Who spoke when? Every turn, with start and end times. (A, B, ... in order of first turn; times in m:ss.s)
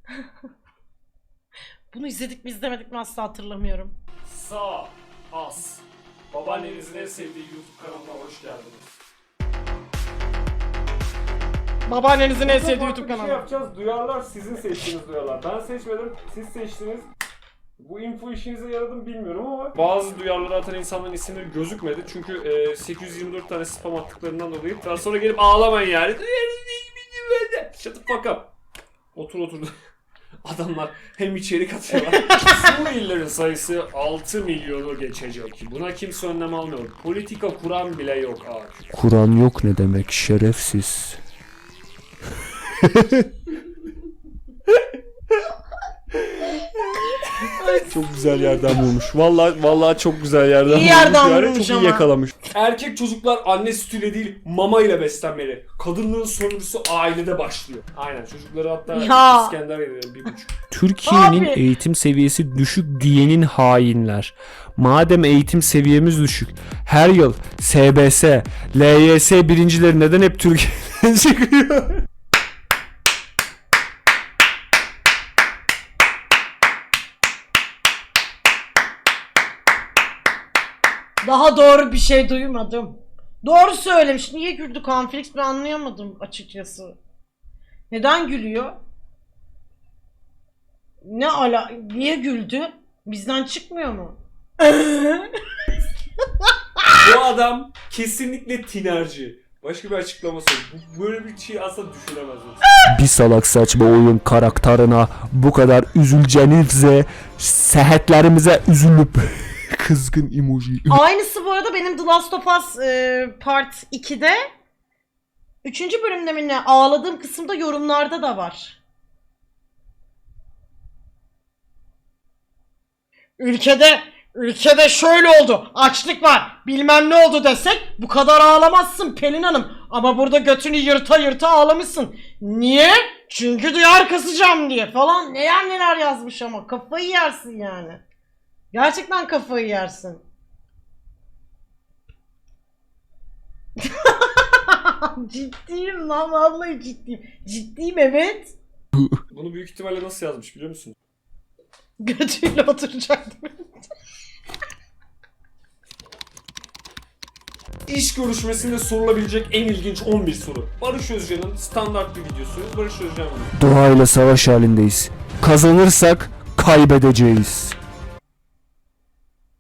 0:01.9-0:04.0 A
0:04.3-0:09.0 B
0:11.9-0:13.4 A
0:12.4-0:17.1 B
0:17.8-0:28.5 B
0:29.2-0:29.7 B
0:30.4-0:38.8 B
0:32.0-0:32.6 A
0:38.9-0:41.2 C
0:42.8-0:43.2 C
0:47.4-0:48.0 A
0:47.8-1:00.6 B
0:50.7-0:52.1 A
0:58.9-0:59.6 A
1:00.7-1:03.5 C
1:01.0-1:01.6 A
1:04.0-1:10.2 C
1:21.2-1:27.0 A
1:27.9-1:28.8 A
1:31.0-1:35.4 A
1:36.4-1:36.9 A
1:37.0-1:42.6 B
1:42.8-1:51.0 C
1:50.9-1:54.4 A
1:55.6-1:58.8 A
2:03.4-2:18.0 A
2:18.7-2:20.2 A
2:23.8-2:28.6 A
2:29.3-2:31.0 B
2:32.0-2:33.6 A
2:37.9-2:43.5 B
2:43.6-2:47.8 C